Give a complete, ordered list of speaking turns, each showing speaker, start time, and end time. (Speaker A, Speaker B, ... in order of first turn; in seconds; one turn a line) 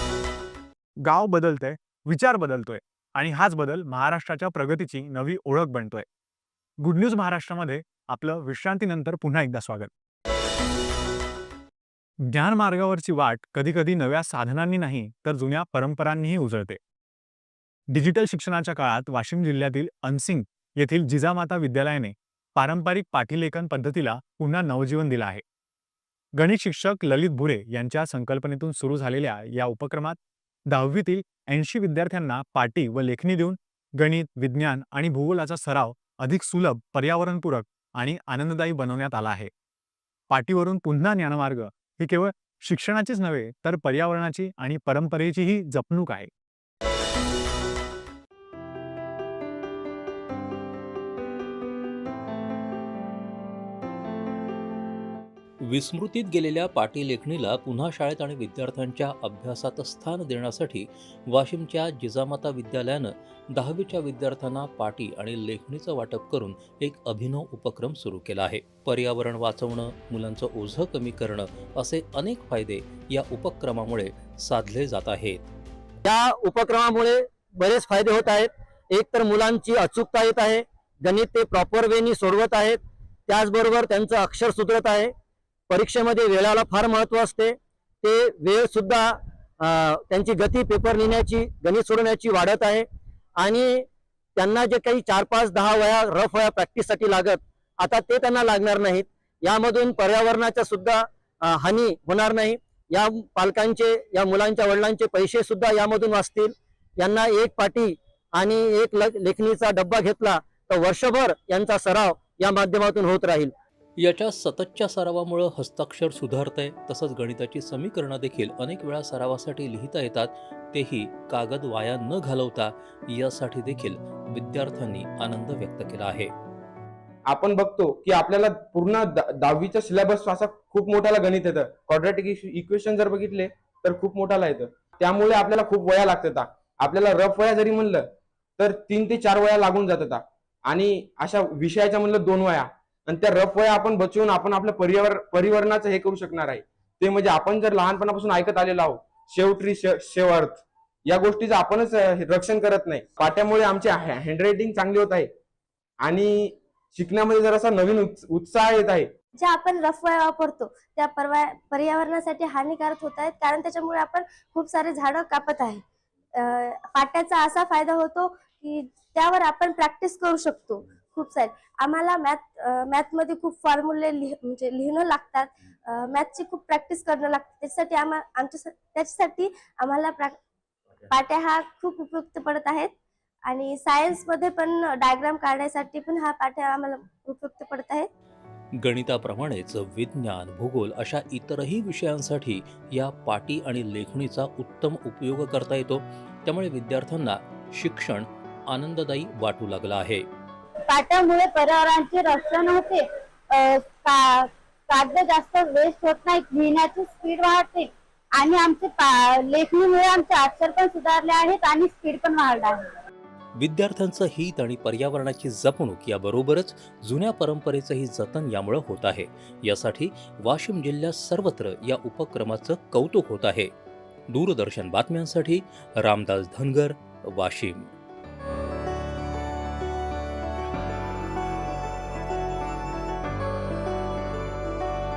Speaker A: 1.0-6.0
Speaker A: 6.8-9.9
Speaker A: 12.2-16.8
Speaker A: 17.9-25.4
Speaker A: 26.4-39.5
Speaker A: 40.3-46.3
Speaker B: 55.6-75.5
Speaker C: 76.0-85.1
Speaker C: 85.7-92.8
Speaker C: 93.4-113.5
Speaker B: 114.0-126.3
Speaker D: 127.3-138.1
Speaker D: 138.6-155.3
Speaker D: 156.0-159.1
Speaker E: 159.4-165.8
Speaker E: 166.4-180.3
Speaker E: 181.1-182.9
Speaker E: 183.5-188.1
Speaker B: 188.8-200.2
Speaker F: 200.9-212.9
Speaker B: 213.6-223.7
Speaker B: 224.3-227.9